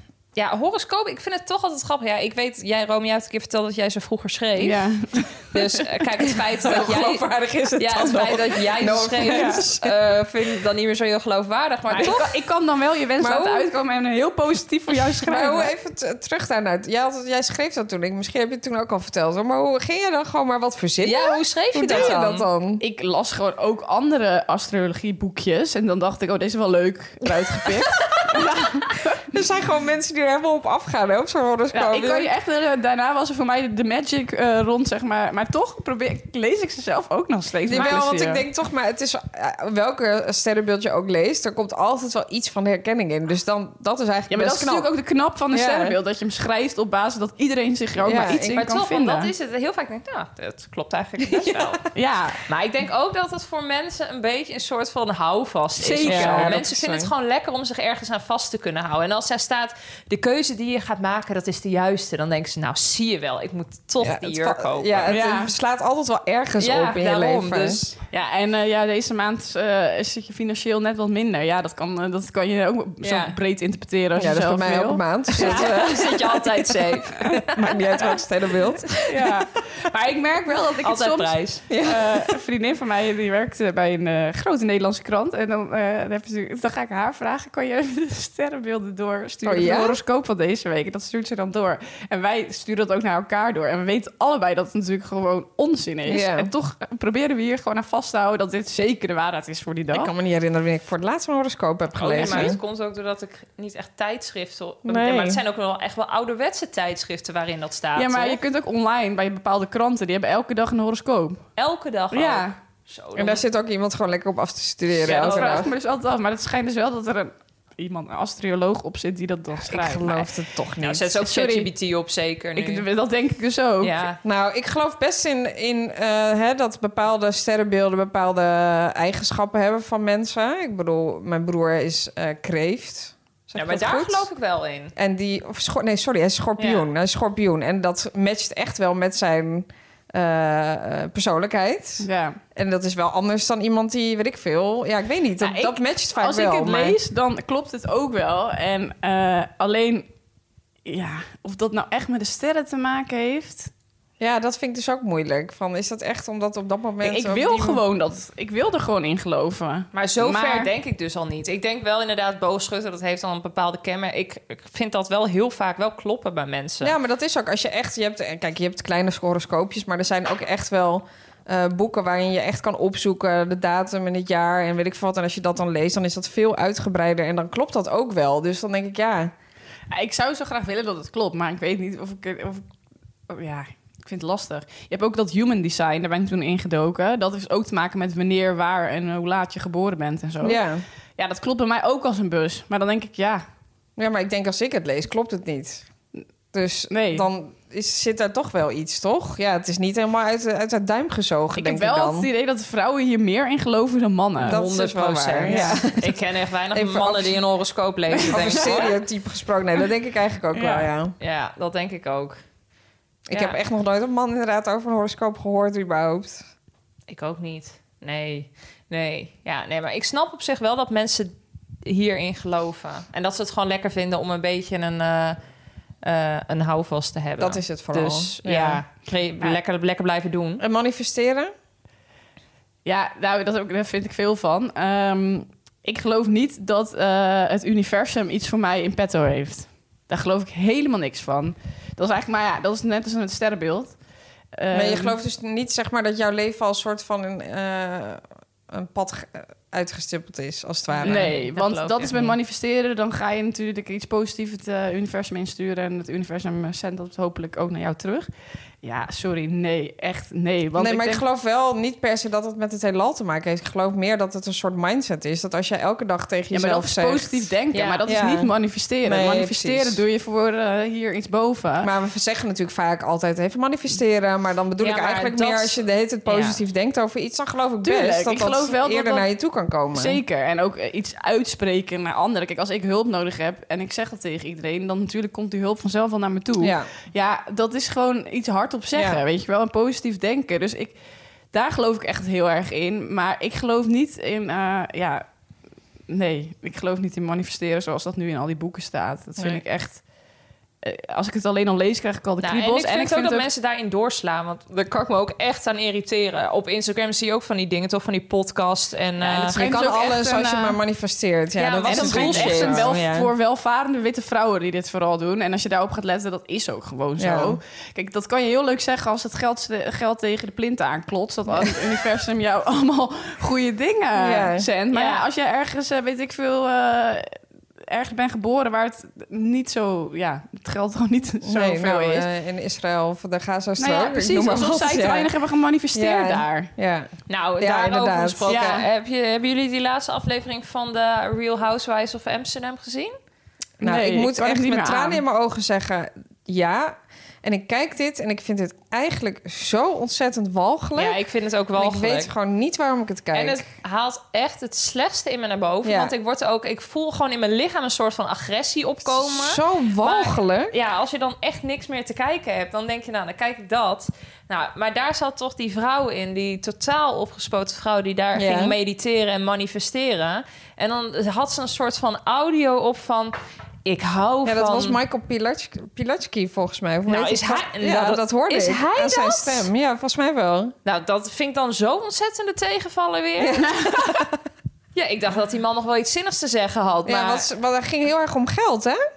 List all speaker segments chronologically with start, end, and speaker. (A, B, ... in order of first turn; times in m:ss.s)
0:00.3-0:04.8 A
0:04.6-0:05.8 B
0:05.5-0:12.3 A
0:06.6-0:09.9 C
0:09.2-0:09.6 B
0:11.9-0:15.7 B
0:13.2-0:13.7 C
0:15.2-0:22.8 C
0:21.0-0:22.5 A
0:22.8-0:29.2 B
0:28.1-0:28.4 C
0:29.3-0:32.3 C
0:31.7-0:38.4 B
0:37.7-0:44.9 C
0:44.3-0:49.3 B
0:45.5-0:45.9 C
0:48.0-0:48.6 C
0:48.5-0:51.8 A
0:51.4-0:51.6 C
0:51.9-0:52.4 B
0:52.5-1:05.1 A
0:55.8-0:56.6 B
0:56.0-0:57.1 C
1:04.0-1:07.9 C
1:05.1-1:05.5 B
1:06.6-1:07.8 A
1:08.1-1:15.7 B
1:13.0-1:13.4 A
1:14.2-1:16.4 C
1:15.4-1:17.9 A
1:17.5-1:19.4 C
1:19.0-1:40.1 B
1:20.8-1:21.6 A
1:21.7-1:22.4 C
1:29.4-1:30.0 C
1:36.1-1:36.5 C
1:39.9-1:42.6 C
1:42.0-1:48.4 A
1:42.2-1:42.6 B
1:44.8-1:45.4 C
1:48.0-1:51.4 B
1:51.6-1:53.4 A
1:52.1-1:52.5 B
1:53.2-1:55.7 C
1:55.0-1:55.7 A
1:55.0-2:00.3 B
1:59.6-2:01.0 C
2:00.8-2:02.8 A
2:01.2-2:01.7 B
2:02.6-2:04.0 B
2:03.8-2:04.2 A
2:04.2-2:14.3 C
2:13.6-2:14.9 A
2:15.0-2:27.0 C
2:22.0-2:22.4 B
2:25.4-2:30.1 B
2:30.8-2:33.7 B
2:34.2-2:37.8 C
2:37.0-2:40.7 B
2:39.9-2:46.9 A
2:46.8-2:59.3 C
2:59.9-3:02.6 B
3:03.3-3:10.6 B
3:10.4-3:10.8 C
3:11.2-3:13.4 B
3:14.0-3:15.9 C
3:16.5-3:22.3 C
3:16.9-3:17.2 B
3:21.5-3:24.6 B
3:24.4-3:28.9 A
3:24.4-3:26.2 C
3:25.4-3:25.8 B
3:26.7-3:27.4 C
3:28.1-3:28.8 B
3:28.3-3:31.1 C
3:30.5-3:30.9 B
3:31.2-3:32.4 A
3:33.3-3:36.4 C
3:33.3-3:33.6 A
3:37.1-3:45.4 A
3:46.0-3:50.6 A
3:47.4-3:48.8 C
3:50.6-3:51.5 C
3:52.8-4:04.0 B
4:04.6-4:05.1 B
4:04.7-4:11.3 C
4:10.9-4:12.4 A
4:11.0-4:18.3 B
4:18.8-4:21.2 B
4:20.8-4:27.5 C
4:26.5-4:31.9 B
4:27.7-4:28.0 A
4:28.1-4:30.0 C
4:31.8-4:40.2 C
4:34.8-4:36.6 A
4:37.8-4:39.3 B
4:39.9-4:51.0 B
4:46.6-4:46.9 C
4:48.9-4:49.2 C
4:51.5-4:55.2 B
4:56.1-5:00.0 B
5:00.8-5:03.4 B
5:02.4-5:09.8 A
5:09.2-5:10.8 B
5:09.5-5:13.3 C
5:11.6-5:12.9 A
5:11.8-5:32.2 B
5:17.2-5:17.6 C
5:24.2-5:25.1 C
5:24.9-5:25.2 A
5:31.4-5:35.3 C
5:33.8-5:36.7 B
5:35.9-5:38.8 C
5:37.3-5:43.2 A
5:38.5-5:38.9 B
5:43.8-5:51.2 C
5:43.8-5:45.2 B
5:51.0-5:52.3 A
5:51.7-5:53.6 C
5:53.3-6:15.0 A
5:55.8-5:56.1 C
5:59.0-6:00.7 C
6:08.4-6:08.8 C
6:14.4-6:20.7 C
6:17.1-6:19.7 A
6:20.8-6:23.7 A
6:23.4-6:24.3 C
6:24.9-6:27.4 A
6:27.0-6:29.0 C